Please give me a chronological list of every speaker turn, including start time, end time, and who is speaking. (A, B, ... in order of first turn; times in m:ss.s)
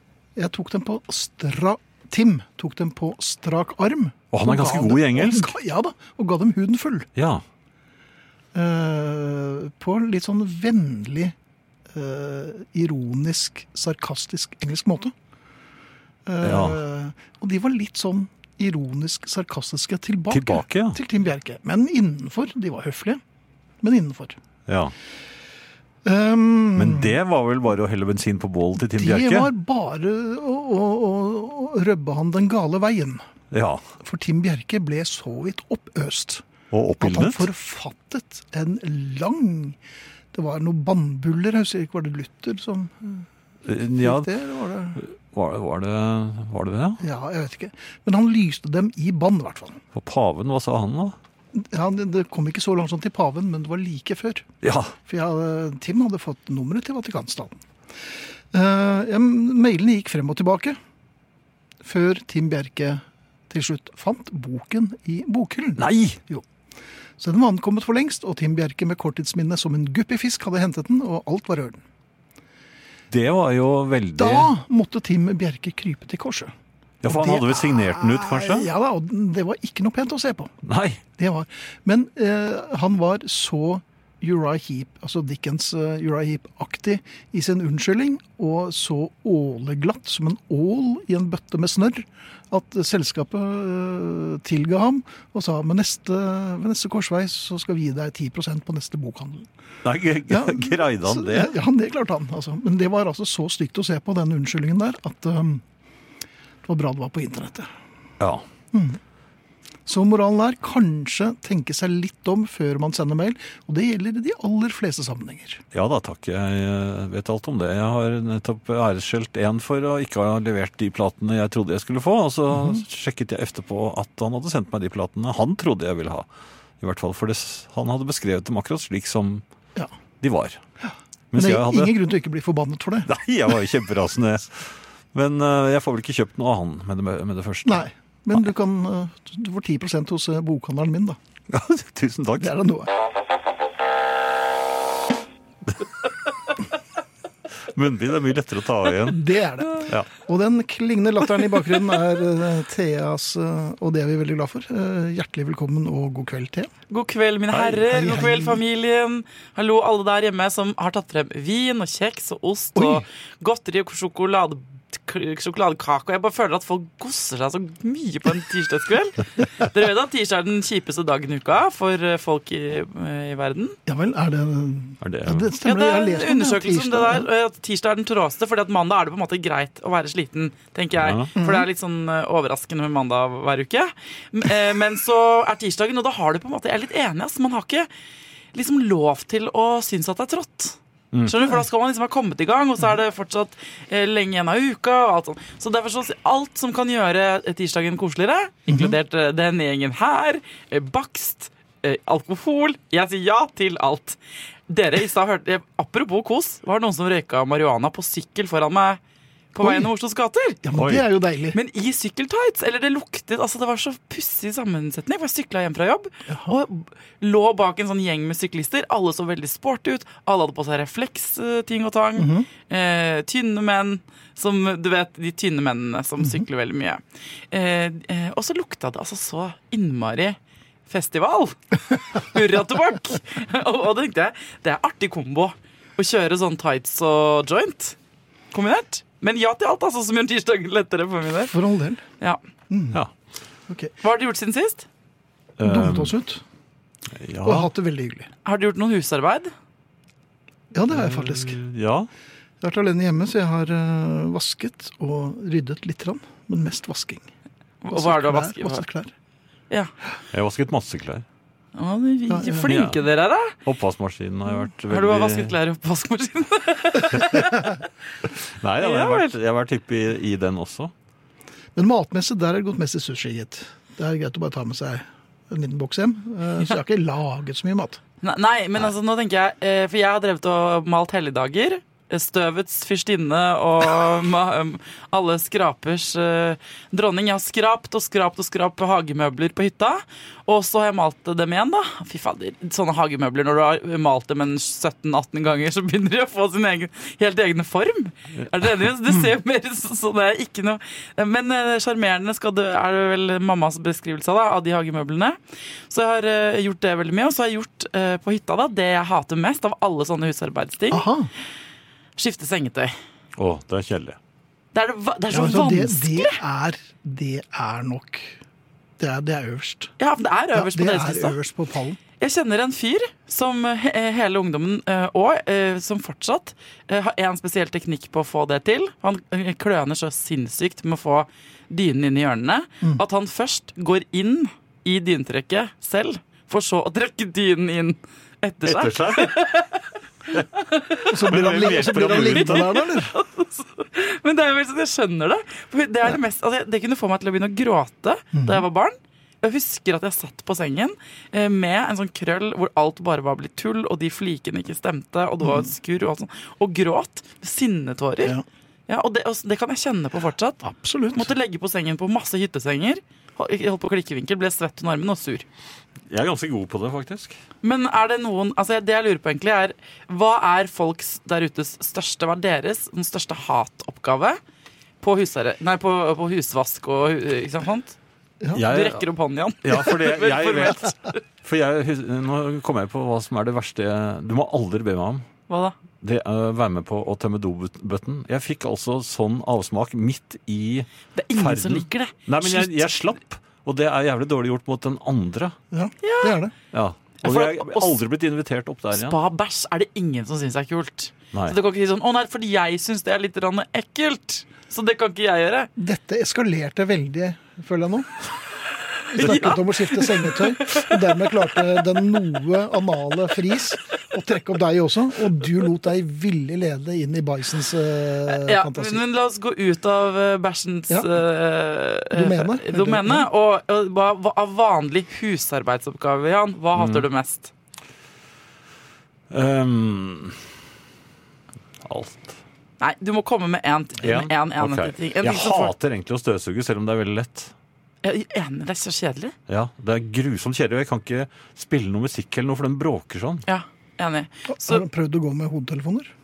0:00.4-0:07.1 A
0:04.3-0:05.5 B
0:07.2-0:07.4 B
0:08.5-0:11.4 A
0:11.9-0:15.1 A
0:16.3-0:23.2 A
0:16.4-0:16.8 B
0:20.3-0:21.0 B
0:23.8-0:24.4 A
0:24.7-0:24.9 B
0:26.0-0:27.2 A
0:26.8-0:29.5 B
0:28.9-0:33.2 A
0:33.5-0:33.8 B
0:34.0-0:36.5 A
0:36.7-0:37.5 B
0:37.0-0:39.8 A
0:40.3-0:43.3 A
0:43.7-0:44.3 B
0:44.0-0:45.0 A
0:45.0-0:47.0 B
0:47.0-0:49.8 A
0:50.0-0:51.2 B
0:51.5-0:54.5 A
0:54.6-0:54.9 B
0:55.1-0:57.6 A
0:58.5-1:00.8 A
1:01.8-1:06.4 A
1:05.8-1:06.2 B
1:07.2-1:11.8 A
1:13.1-1:14.5 B
1:14.2-1:16.5 A
1:17.0-1:18.7 B
1:17.1-1:20.5 A
1:20.6-1:21.0 B
1:21.2-1:39.5 A
1:39.8-1:41.5 B
1:40.3-1:45.6 A
1:46.6-1:47.7 A
1:48.7-1:49.0 A
1:49.9-1:55.6 A
1:55.7-2:06.3 B
2:02.5-2:02.8 A
2:06.8-2:09.4 B
2:10.2-2:10.6 B
2:10.8-2:13.1 A
2:11.3-2:12.0 B
2:13.1-2:17.9 B
2:17.6-2:21.2 A
2:21.5-2:22.5 B
2:22.4-2:22.9 A
2:27.7-2:29.2 B
2:29.0-2:36.7 A
2:29.8-2:30.1 B
2:36.9-2:53.8 C
2:37.5-2:37.8 B
2:37.9-2:38.6 A
2:42.8-2:43.0 A
2:53.9-2:57.3 A
2:55.0-2:55.5 B
2:55.6-3:07.9 C
3:01.0-3:01.3 B
3:01.4-3:01.7 A
3:08.5-3:29.0 C
3:18.7-3:19.0 A
3:29.5-3:30.6 C
3:29.6-3:29.9 A
3:30.6-3:31.6 A
3:30.8-3:31.0 B
3:31.5-3:58.0 C
3:42.2-3:42.5 A
3:58.5-4:01.5 C
4:01.5-4:02.0 A
4:02.7-4:03.0 A
4:04.0-4:04.9 C
4:05.6-4:06.2 B
4:05.6-4:06.4 A
4:07.2-4:07.7 B
4:07.4-4:08.3 A
4:08.4-4:09.5 C
4:10.7-4:11.6 A
4:10.9-4:12.1 B
4:12.6-4:17.2 A
4:17.8-4:18.8 C
4:17.9-4:19.1 A
4:20.3-4:21.2 B
4:21.8-4:23.6 C
4:22.3-4:22.7 A
4:22.7-4:23.0 B
4:23.6-4:25.5 B
4:24.9-4:27.8 C
4:28.4-4:30.9 B
4:28.8-4:29.3 C
4:31.8-4:38.0 A
4:38.2-5:05.4 C
5:05.9-5:11.1 C
5:10.9-5:11.3 A
5:12.2-5:13.0 C
5:13.4-5:14.2 B
5:14.7-5:16.4 C
5:15.3-5:18.4 A
5:19.0-5:19.9 A
5:20.0-5:21.4 C
5:20.5-5:22.0 A
5:22.2-5:58.4 C
5:38.6-5:39.5 B
5:41.1-5:43.1 A
5:41.1-5:42.7 B
5:48.3-5:48.7 A
5:55.4-5:55.7 A
5:58.9-6:05.5 C
6:00.6-6:01.3 A
6:06.1-6:07.4 B
6:07.6-6:14.4 C
6:15.0-6:18.0 C
6:18.5-6:19.1 B
6:18.6-6:21.2 C
6:19.6-6:20.9 B
6:21.4-6:25.3 B
6:25.5-6:25.8 C
6:26.0-6:35.6 B
6:31.1-6:32.8 C
6:35.7-6:36.5 A
6:36.0-6:36.4 C
6:36.7-6:39.2 B
6:37.2-6:38.0 C
6:38.9-6:45.7 C
6:45.8-6:48.2 A
6:49.0-6:51.0 C
6:49.2-6:59.0 A
6:49.2-6:49.5 B
6:58.3-7:07.5 C
7:02.1-7:03.3 A
7:06.8-7:07.1 B
7:09.3-7:10.4 B
7:11.8-7:12.4 B
7:12.8-7:15.7 C
7:14.0-7:17.5 B
7:18.0-7:19.3 C
7:19.5-7:23.5 B
7:23.5-7:24.8 C
7:24.5-7:26.1 A